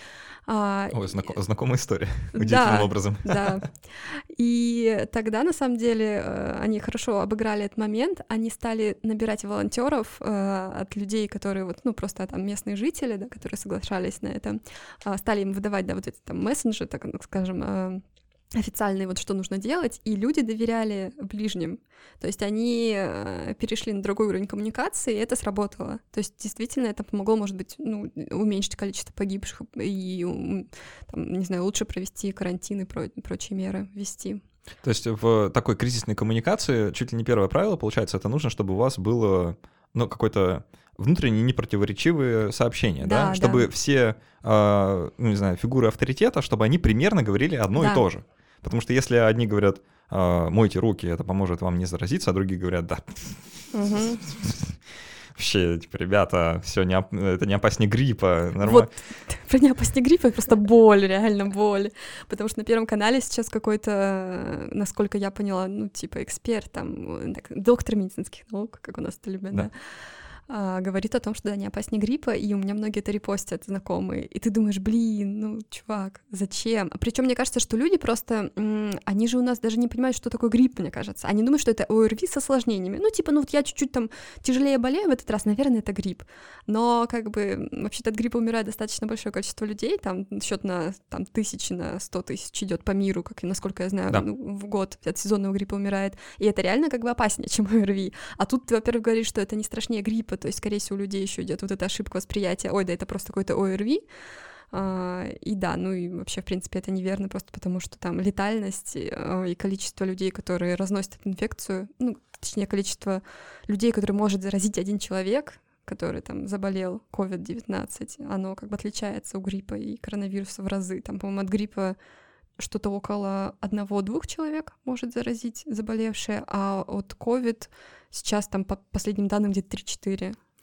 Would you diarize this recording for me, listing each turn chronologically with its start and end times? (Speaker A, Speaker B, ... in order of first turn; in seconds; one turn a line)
Speaker A: 0.5-1.3
Speaker B: 0.9-3.7
Speaker A: 2.3-18.0
Speaker A: 18.6-34.4
Speaker B: 34.8-54.8
Speaker A: 43.0-43.7
Speaker A: 47.8-48.0
Speaker A: 53.7-54.2
Speaker B: 55.4-58.9
Speaker A: 58.6-69.7
Speaker A: 70.5-104.0
Speaker A: 104.7-122.0
Speaker A: 122.6-130.4